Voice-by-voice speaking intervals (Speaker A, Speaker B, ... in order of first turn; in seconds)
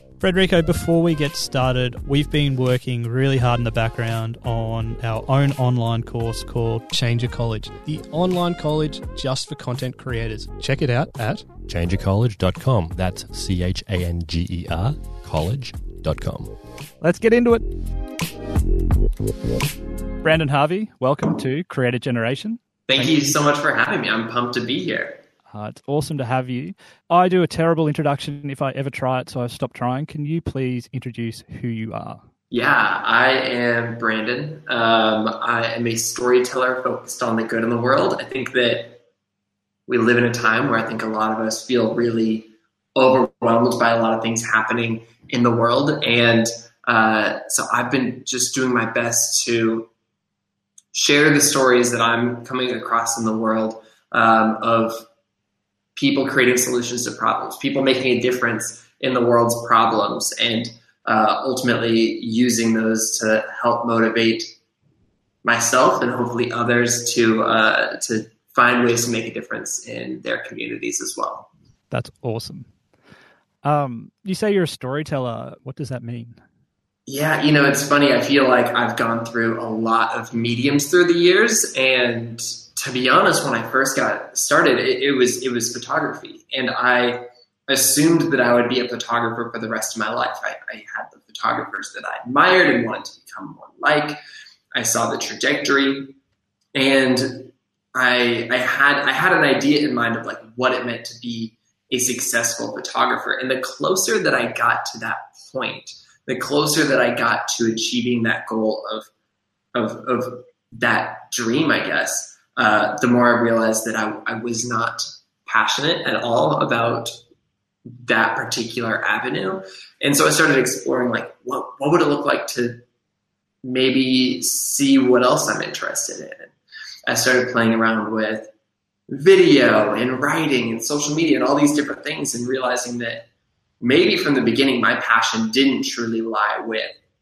Speaker A: 0.2-11.4, 17.0-17.7, 20.2-23.3, 25.5-32.2, 71.9-72.7, 73.6-76.4
Speaker B: 11.7-16.5
Speaker C: 22.9-25.2, 32.5-39.0, 39.9-49.9, 50.9-55.0, 56.0-64.5, 65.4-71.5, 77.1-94.2, 94.7-96.2, 96.7-109.1, 109.7-117.1, 118.0-122.8, 123.6-126.5, 127.1-128.5, 129.1-133.2, 133.8-136.9